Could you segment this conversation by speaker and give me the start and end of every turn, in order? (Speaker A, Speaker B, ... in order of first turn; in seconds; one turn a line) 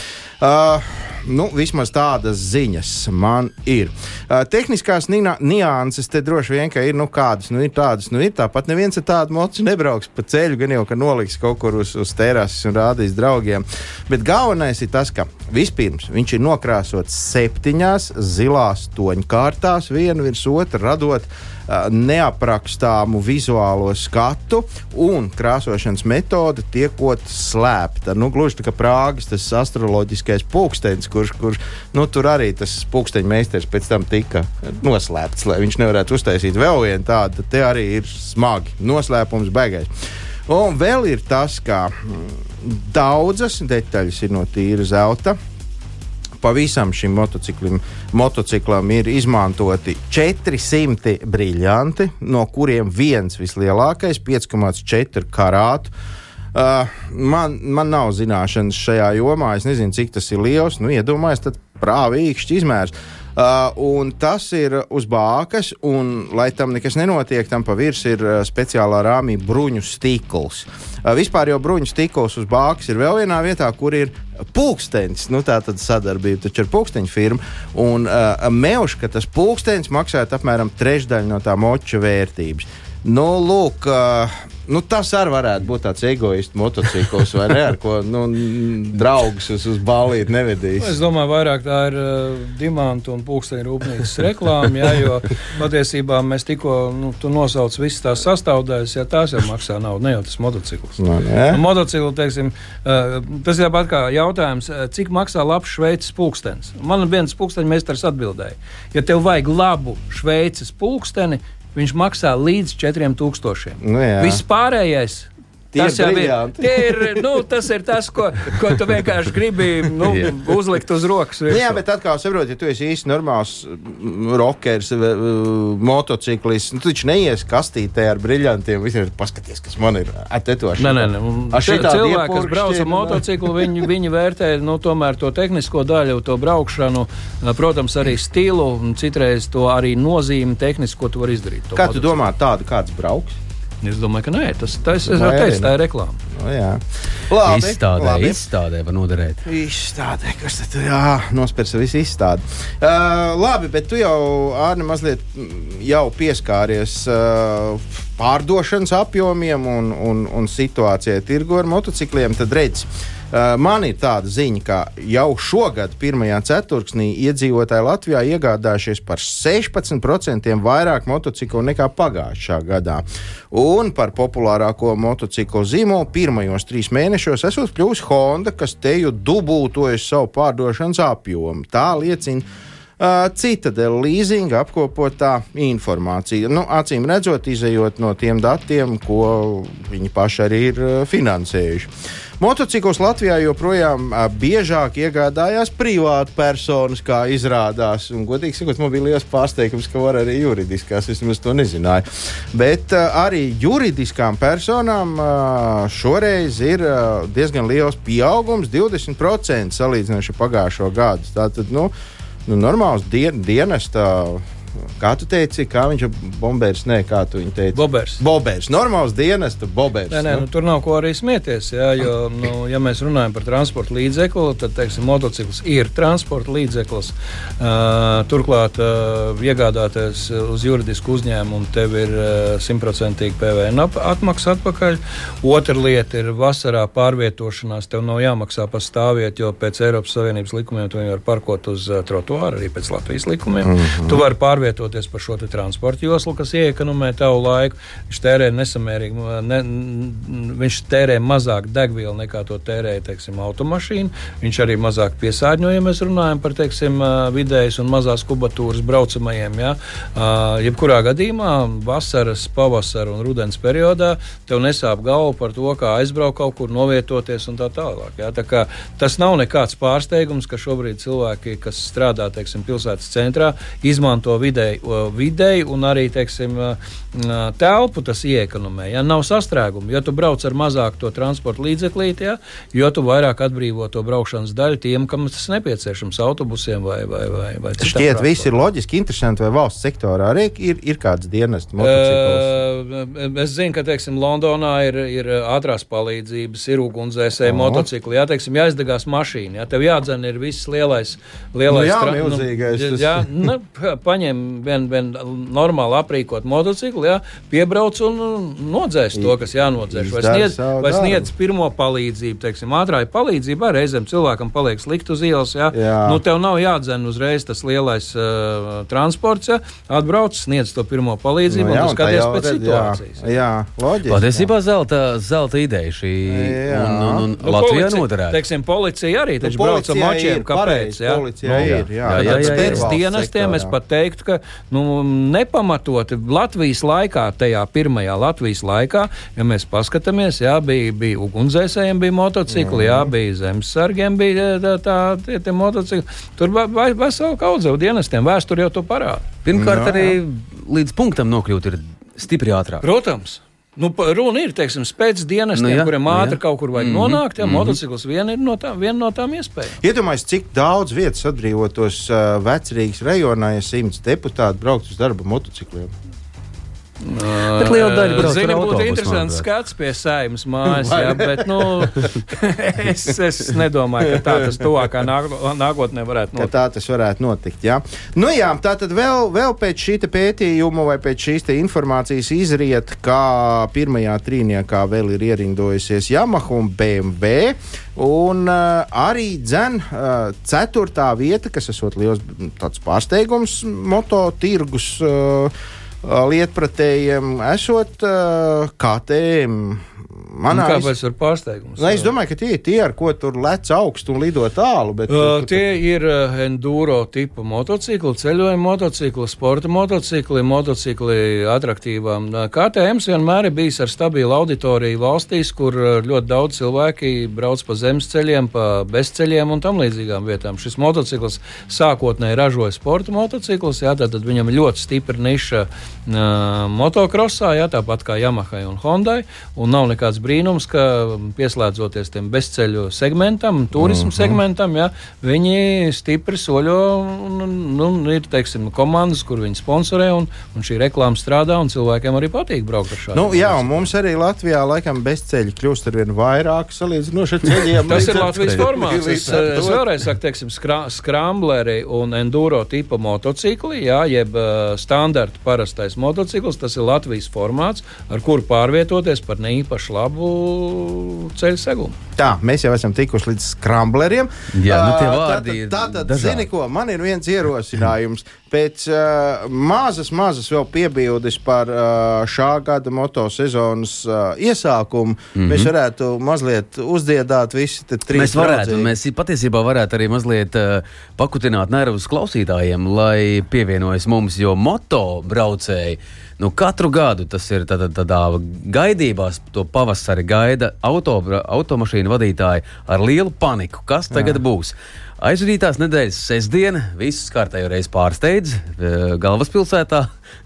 Speaker A: 0.4-39.9
Speaker A: 40.5-45.4
Speaker A: 46.4-55.9
Speaker A: 56.5-90.9
Speaker B: 90.8-121.8
Speaker A: 101.0-101.6
Speaker A: 113.8-114.4
Speaker A: 115.7-117.2
Speaker C: 120.0-120.3
Speaker A: 121.5-133.7
Speaker B: 130.8-142.1
Speaker A: 141.7-143.3
Speaker B: 143.8-146.2
Speaker A: 145.0-145.7
Speaker A: 146.3-148.4
Speaker C: 147.4-149.4
Speaker A: 149.4-182.4
Speaker A: 183.0-211.9
Speaker A: 212.4-214.4
Speaker A: 215.0-220.4
Speaker B: 217.7-218.2
Speaker B: 220.1-288.5
Speaker A: 243.6-244.2
Speaker A: 287.8-292.5
Speaker B: 291.8-323.3
Speaker A: 297.4-297.9
Speaker A: 301.7-303.3
Speaker A: 309.1-311.3
Speaker A: 315.7-316.2
Speaker A: 321.5-324.5
Speaker C: 324.1-328.4
Speaker A: 326.2-327.3
Speaker B: 327.4-349.3
Speaker A: 329.4-333.7
Speaker C: 331.5-332.9
Speaker A: 342.5-343.1
Speaker C: 349.4-352.8
Speaker A: 349.5-350.2
Speaker B: 352.8-359.8
Speaker C: 355.6-357.8
Speaker A: 359.8-365.9
Speaker B: 367.0-376.5
Speaker C: 367.5-369.4
Speaker A: 370.6-372.1
Speaker A: 376.4-400.9
Speaker B: 400.5-402.1
Speaker A: 401.8-405.6
Speaker B: 405.1-443.9
Speaker A: 433.8-434.4
Speaker A: 443.1-449.8
Speaker C: 447.6-448.6
Speaker B: 447.9-462.0
Speaker A: 462.2-478.9
Speaker C: 464.5-466.4
Speaker C: 475.3-475.7
Speaker C: 478.1-500.1
Speaker A: 494.1-494.4